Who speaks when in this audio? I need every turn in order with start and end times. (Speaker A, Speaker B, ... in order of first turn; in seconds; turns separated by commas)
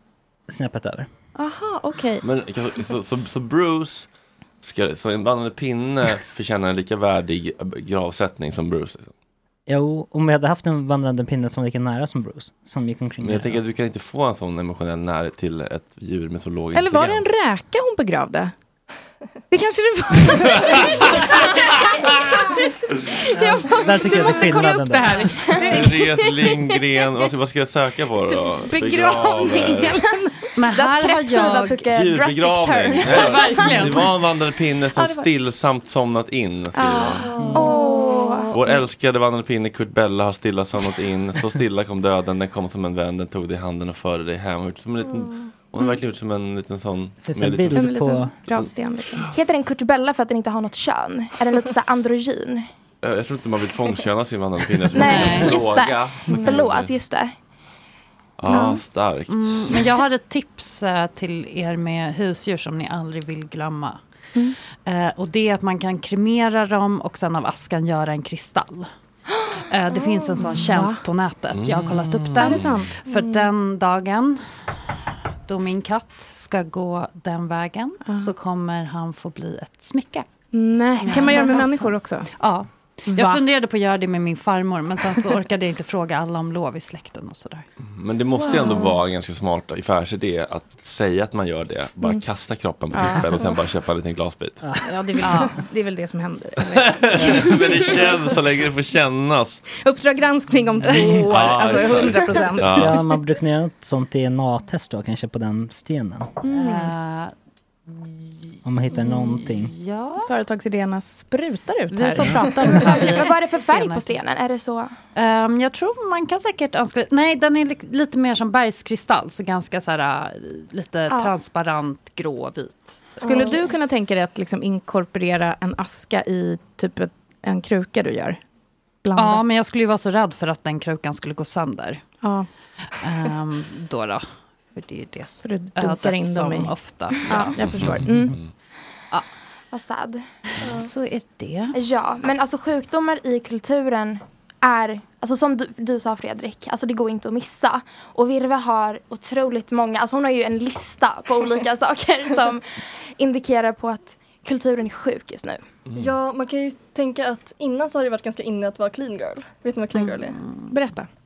Speaker A: 0.5-1.1, Speaker B: 1.3-2.2, Speaker C: 2.2-4.1, Speaker C: 4.6-9.1, Speaker A: 9.7-13.6, Speaker C: 13.2-17.3, Speaker B: 16.7-18.5, Speaker B: 19.5-21.5, Speaker B: 23.3-26.5, Speaker D: 23.6-24.5, Speaker A: 23.7-25.5, Speaker D: 25.2-26.2, Speaker C: 25.6-30.0, Speaker B: 28.3-30.5, Speaker E: 30.6-31.8, Speaker D: 30.7-33.7, Speaker C: 31.9-37.3, Speaker E: 33.1-34.1, Speaker B: 34.9-35.3, Speaker B: 36.8-37.8, Speaker F: 37.2-38.5, Speaker D: 37.5-38.5, Speaker C: 38.5-47.9, Speaker A: 47.2-48.4, Speaker B: 47.7-49.3, Speaker D: 49.3-52.7, Speaker C: 53.0-56.9, Speaker D: 54.9-57.3, Speaker E: 55.0-55.6, Speaker B: 56.3-56.5, Speaker C: 58.4-59.8, Speaker B: 58.5-58.8, Speaker E: 59.3-64.0, Speaker E: 64.8-68.9, Speaker E: 69.7-74.5, Speaker B: 70.4-71.0, Speaker C: 71.5-72.8, Speaker B: 72.4-72.9, Speaker F: 73.1-73.5, Speaker E: 75.5-80.2, Speaker B: 78.0-78.3, Speaker B: 80.5-82.3, Speaker E: 81.0-87.6, Speaker B: 83.1-83.4, Speaker C: 87.9-94.6, Speaker F: 88.5-88.8, Speaker B: 92.9-93.3, Speaker B: 94.8-98.1, Speaker E: 95.2-95.5, Speaker C: 96.7-99.6, Speaker B: 99.8-103.1, Speaker C: 101.2-102.9, Speaker A: 102.6-106.3, Speaker B: 106.4-106.9, Speaker E: 106.5-107.3, Speaker E: 107.9-108.3, Speaker A: 108.6-109.7, Speaker E: 108.9-110.3, Speaker B: 110.2-113.3, Speaker E: 111.9-114.2, Speaker D: 112.8-114.9, Speaker E: 115.1-123.0, Speaker B: 123.2-128.4, Speaker B: 129.0-129.4, Speaker E: 129.1-132.0, Speaker B: 132.2-132.5, Speaker E: 133.0-134.2, Speaker E: 134.7-137.7, Speaker B: 135.4-138.4, Speaker C: 137.6-138.5, Speaker D: 139.7-140.2, Speaker E: 140.6-141.8, Speaker D: 141.7-155.6, Speaker F: 155.9-160.4, Speaker E: 159.9-160.7, Speaker B: 160.7-161.1